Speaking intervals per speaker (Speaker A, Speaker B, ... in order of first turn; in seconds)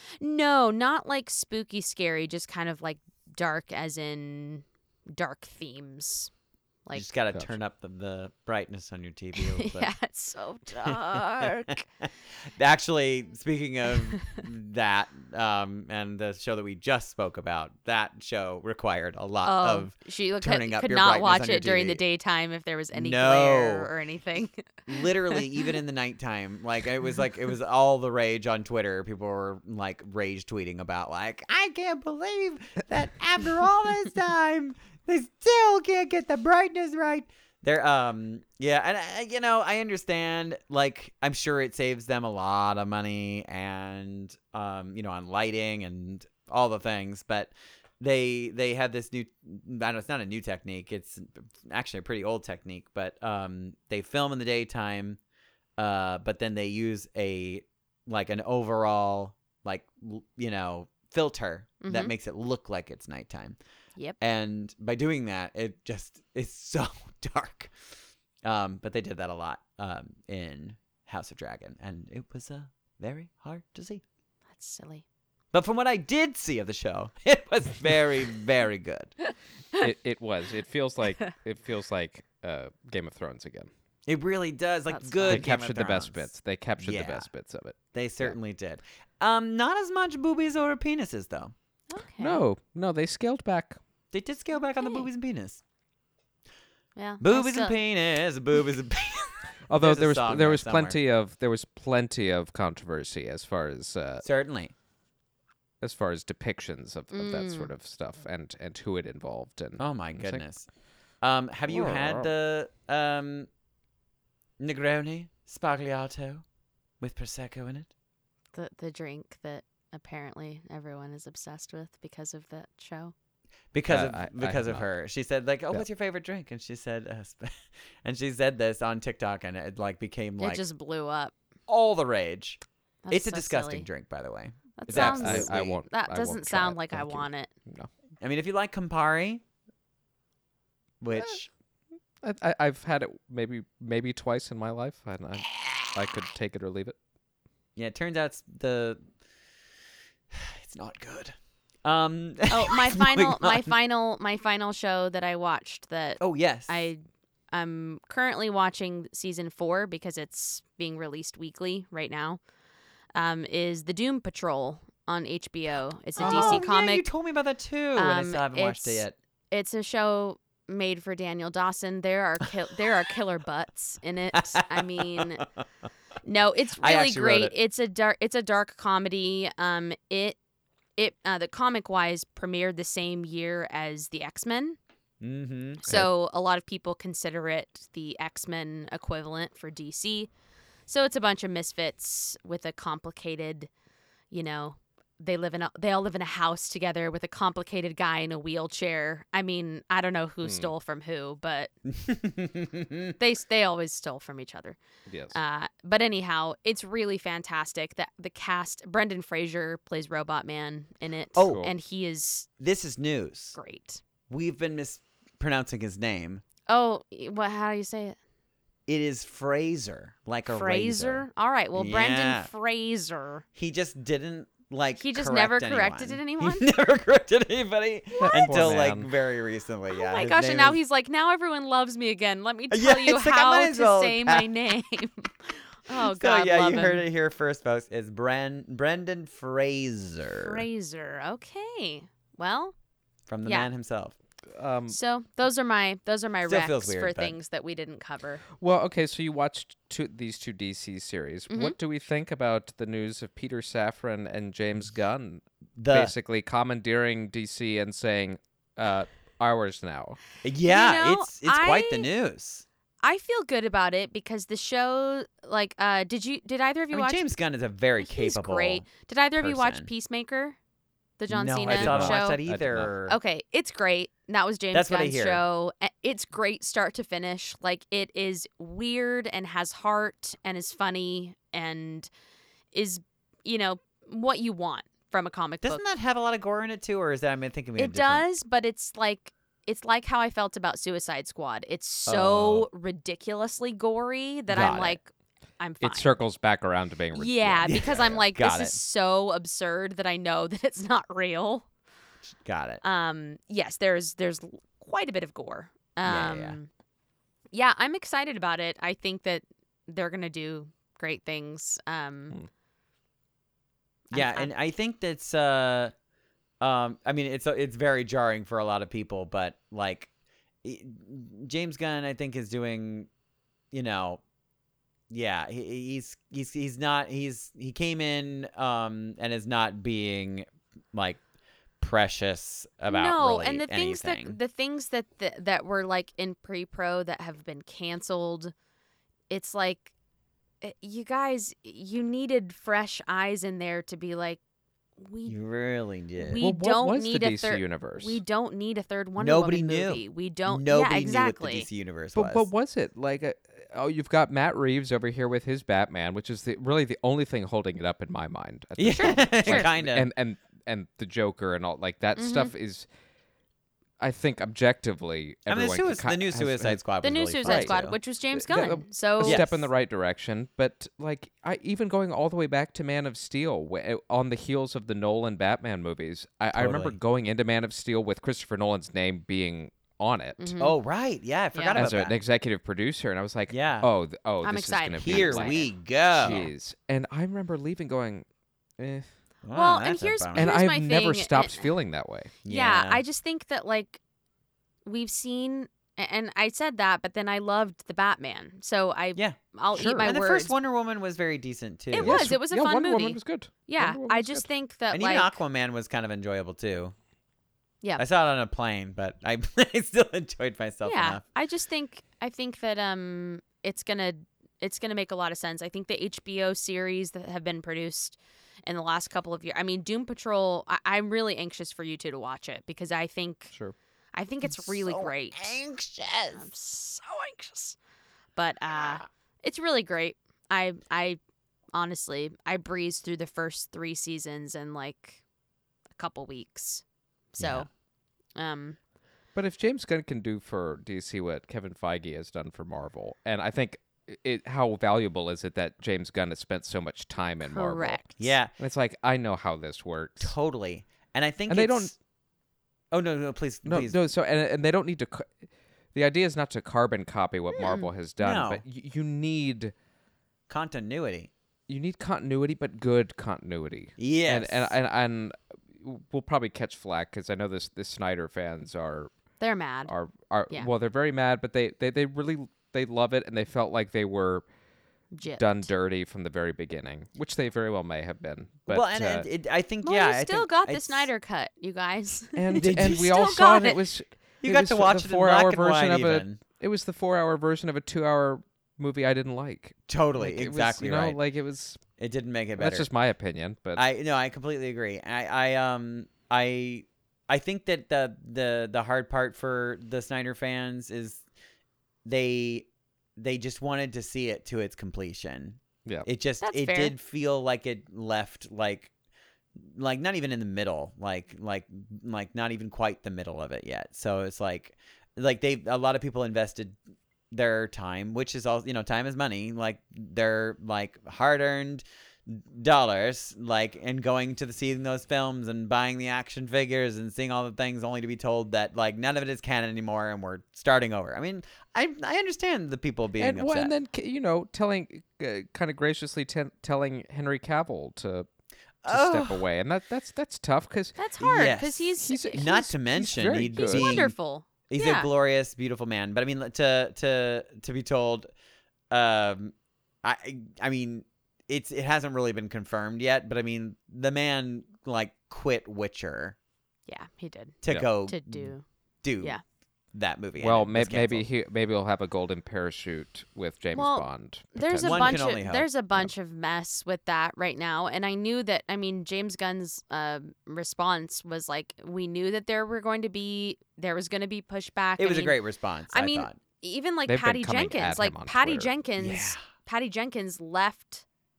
Speaker A: 0.2-6.3, 9.3-11.8, 19.4-25.7, 61.8-62.1, 74.5-75.0, 79.3-79.8, 84.9-85.5, 91.9-92.4, 94.8-95.1, 97.0-97.8, 107.1-107.7, 118.5-123.1, 130.4-131.3, 133.0-133.9, 134.8-137.5, 152.5-157.0, 157.5-162.4, 163.1-167.1, 167.9-175.4, 176.2-180.4, 181.0-184.8, 185.8-190.3, 190.9-193.7, 194.3-201.7, 203.2-204.8, 205.3-212.5, 213.6-214.0, 216.7-218.2, 220.5-223.4, 225.0-226.7, 228.2-228.5, 229.9-237.0, 240.3-242.7, 244.9-248.4, 251.5-251.8, 260.6-262.1, 263.0-267.2, 268.0-270.6, 271.2-272.4, 273.1-282.1, 282.7-285.8, 287.8-296.1, 297.1-301.7, 302.8-306.7, 307.5-312.4, 314.1-314.5, 332.9-338.5, 339.3-339.9, 340.6-344.4, 345.0-345.3, 346.1-351.7, 358.9-359.7, 362.2-362.5, 367.0-369.4, 380.4-380.8, 381.5-381.8, 384.4-385.7, 389.5-391.7, 392.4-394.0, 394.9-400.5, 401.9-405.4, 410.8-423.5, 424.1-425.6, 426.3-427.8, 428.4-431.2, 431.7-435.2, 435.9-436.8, 437.3-437.7, 438.4-438.8, 447.4-448.2, 457.5-457.9, 469.4-469.9, 475.1-475.7, 479.8-483.8, 506.4-506.9, 541.0-545.1, 556.9-558.6, 563.7-575.4, 575.9-581.0
Speaker B: 6.9-9.9, 10.7-22.0, 22.9-23.9, 24.9-55.2, 55.8-63.6, 64.2-67.7, 68.4-74.0, 75.5-79.1, 84.0-87.3, 87.9-91.5, 94.1-95.6, 97.2-101.0, 104.2-104.7, 109.8-110.7, 111.2-113.5, 114.6-116.4, 117.0-117.9, 123.7-130.6, 131.7-135.8, 138.2-139.4, 141.0-141.5, 147.8-149.0, 150.3-153.7, 156.2-156.9, 166.2-169.2, 174.3-175.4, 176.8-177.5, 185.2-186.1, 201.9-203.1, 211.3-211.6, 212.6-213.6, 214.3-216.4, 218.9-222.5, 223.5-230.8, 232.7-234.5, 235.9-240.7, 243.3-244.2, 246.4-247.4, 255.8-256.1, 260.4-262.6, 266.9-268.9, 269.4-269.9, 271.3-273.2, 274.7-275.4, 285.6-288.2, 292.1-292.7, 294.5-295.0, 297.6-298.8, 302.4-302.8, 306.0-306.6, 314.1-315.9, 316.6-320.1, 320.6-323.1, 323.7-324.2, 325.1-331.2, 331.8-334.4, 345.2-346.4, 349.2-352.5, 358.8-360.1, 365.5-367.9, 369.2-369.7, 376.5-377.0, 380.6-382.1, 383.5-383.9, 385.0-386.5, 389.4-390.5, 392.4-393.0, 400.0-402.3, 404.9-406.9, 408.0-411.2, 424.4-426.4, 437.4-437.7, 448.2-448.5, 450.2-451.9, 452.9-454.0, 458.2-458.6, 460.5-461.3, 464.0-464.7, 478.7-481.1, 482.6-483.2, 484.4-486.4, 489.9-491.2, 492.0-492.9, 493.8-501.2, 502.0-508.9, 509.6-516.8, 517.3-533.7, 538.8-539.4, 541.2-544.1, 544.7-548.3, 548.9-556.4, 557.6-559.4, 559.9-561.2, 564.8-565.7, 575.0-576.4, 579.0-579.4
Speaker C: 79.8-83.7, 85.3-88.3, 92.2-93.8, 99.7-104.2, 105.8-110.4, 111.7-112.3, 123.9-124.8, 134.9-137.9, 142.2-146.9, 166.2-166.6, 200.4-200.7, 205.1-205.4, 211.4-211.7, 228.2-229.1, 244.5-245.0, 248.6-260.2, 271.7-272.9, 295.8-297.7, 346.4-348.2, 352.1-362.9, 364.0-366.8, 367.4-367.8, 368.3-380.5, 381.7-385.6, 386.1-388.2, 388.8-389.1, 390.3-392.3, 399.7-400.1, 402.0-404.4, 439.3-448.0, 448.6-450.3, 451.5-451.9, 453.6-455.3, 455.9-459.7, 461.7-469.1, 469.9-474.4, 475.3-479.3, 482.4-491.8, 492.6-493.8, 533.2-538.3, 538.9-541.0, 542.0-544.0, 560.4-565.2, 577.1-578.7